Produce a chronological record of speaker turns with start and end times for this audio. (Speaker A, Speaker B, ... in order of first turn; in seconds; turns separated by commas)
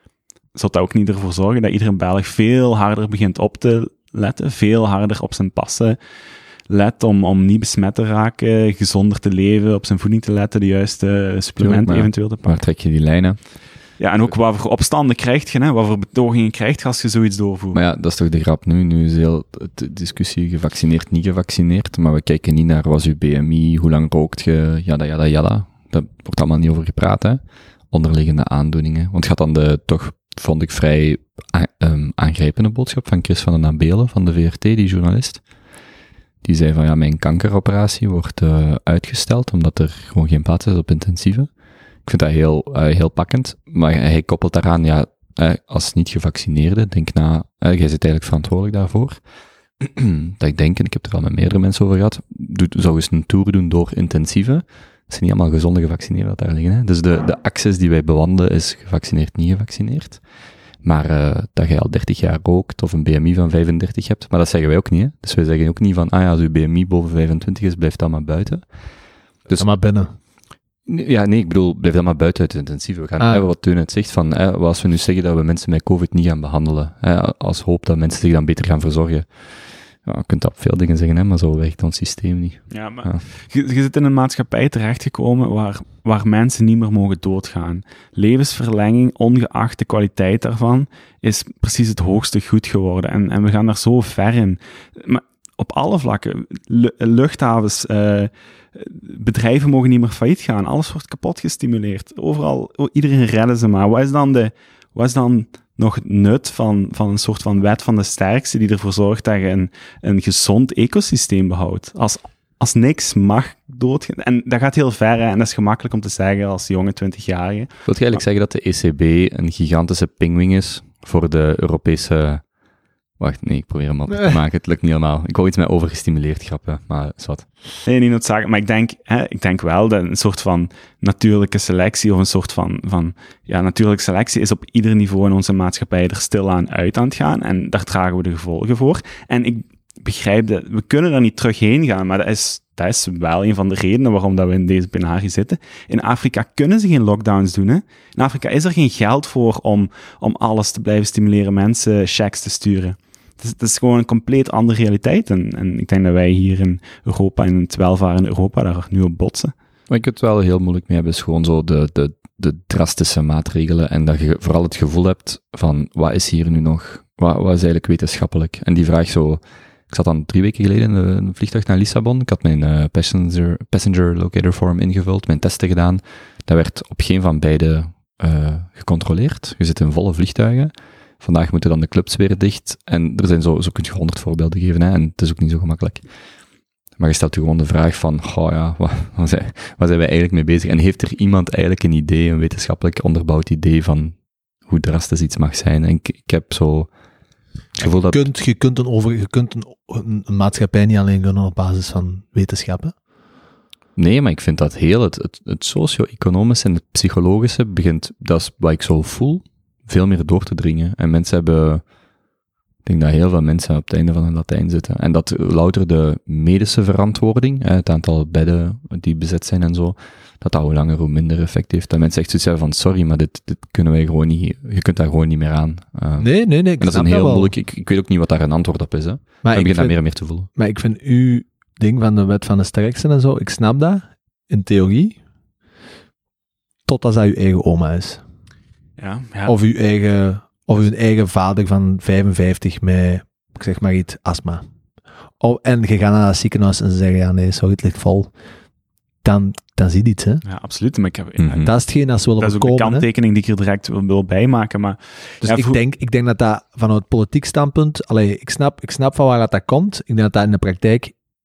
Speaker A: 0.5-6.0, Speaker A: 6.7-12.6, Speaker B: 11.6-13.5, Speaker A: 14.0-17.8, Speaker B: 17.7-35.4, Speaker B: 36.4-41.5, Speaker B: 42.0-49.2, Speaker B: 49.8-60.2, Speaker B: 60.8-68.7, Speaker C: 69.5-70.1, Speaker B: 70.8-83.2, Speaker C: 73.2-73.5, Speaker A: 82.7-118.2, Speaker B: 117.8-122.5, Speaker B: 123.2-127.5, Speaker A: 127.8-159.5, Speaker B: 159.9-186.0, Speaker B: 187.0-196.9, Speaker C: 197.8-202.9, Speaker B: 197.8-198.2, Speaker B: 203.9-211.9, Speaker B: 212.8-230.5, Speaker C: 226.2-227.5, Speaker C: 229.4-235.2, Speaker C: 236.9-238.2, Speaker A: 239.0-239.6, Speaker C: 239.4-244.6, Speaker C: 245.4-248.3, Speaker C: 249.2-250.4, Speaker A: 250.4-251.7, Speaker B: 251.4-251.7, Speaker C: 251.6-253.1, Speaker A: 252.4-255.8, Speaker C: 255.4-261.1